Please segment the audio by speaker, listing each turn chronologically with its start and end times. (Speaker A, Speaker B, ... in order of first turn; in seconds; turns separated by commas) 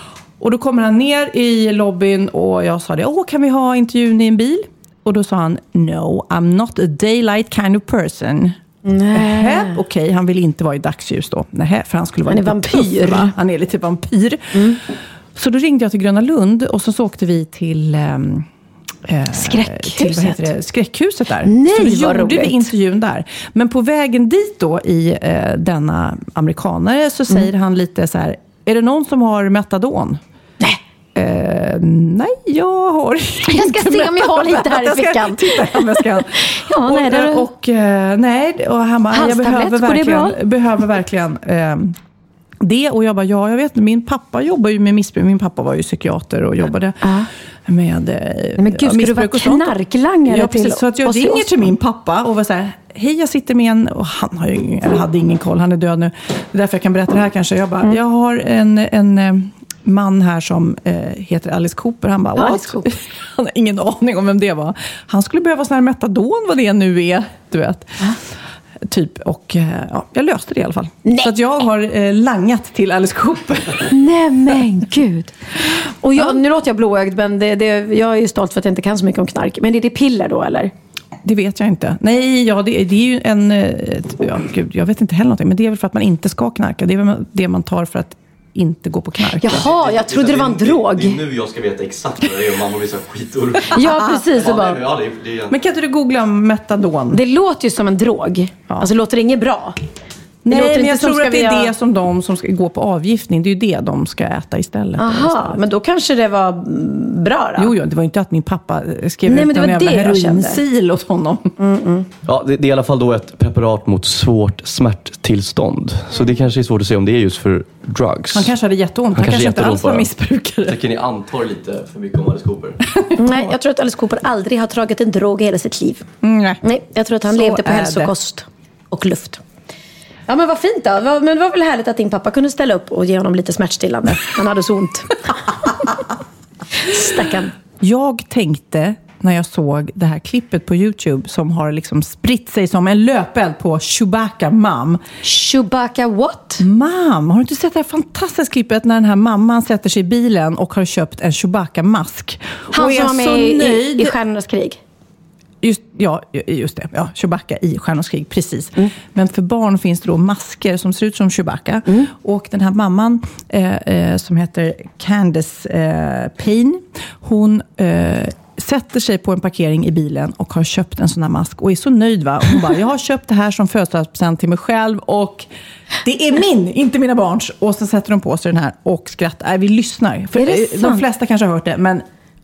Speaker A: 0.4-8.5, Speaker B: 8.8-9.8, Speaker A: 9.1-14.4, Speaker B: 12.3-13.3, Speaker B: 14.5-14.8, Speaker A: 15.3-18.4, Speaker A: 19.1-30.2, Speaker B: 19.3-20.4, Speaker B: 21.4-22.7, Speaker A: 31.1-41.9, Speaker B: 33.5-37.5, Speaker B: 39.1-40.4, Speaker A: 42.6-47.0, Speaker B: 47.0-47.3, Speaker A: 47.7-49.7, Speaker B: 48.6-51.7, Speaker A: 50.2-68.0, Speaker B: 62.4-62.8, Speaker A: 68.9-73.9, Speaker B: 71.0-71.3, Speaker B: 73.9-80.7, Speaker A: 81.2-89.6, Speaker B: 89.4-91.2, Speaker C: 89.5-95.6, Speaker B: 93.7-94.8, Speaker A: 95.5-97.2, Speaker B: 97.1-99.8, Speaker A: 100.4-105.6, Speaker B: 100.5-101.7, Speaker B: 105.0-107.7, Speaker A: 107.6-111.5, Speaker B: 109.2-110.6, Speaker B: 111.6-112.1, Speaker C: 112.2-118.5, Speaker A: 118.3-120.8, Speaker C: 119.1-120.1, Speaker C: 120.6-122.8, Speaker A: 122.9-123.5, Speaker B: 123.2-126.0, Speaker A: 126.2-126.6, Speaker B: 126.6-129.4, Speaker A: 127.3-128.1, Speaker B: 130.3-136.0, Speaker B: 136.8-137.5, Speaker A: 137.8-145.0, Speaker B: 145.2-146.6, Speaker A: 146.6-154.1, Speaker B: 152.7-154.8, Speaker A: 155.6-175.5, Speaker A: 176.0-182.0, Speaker B: 180.3-181.0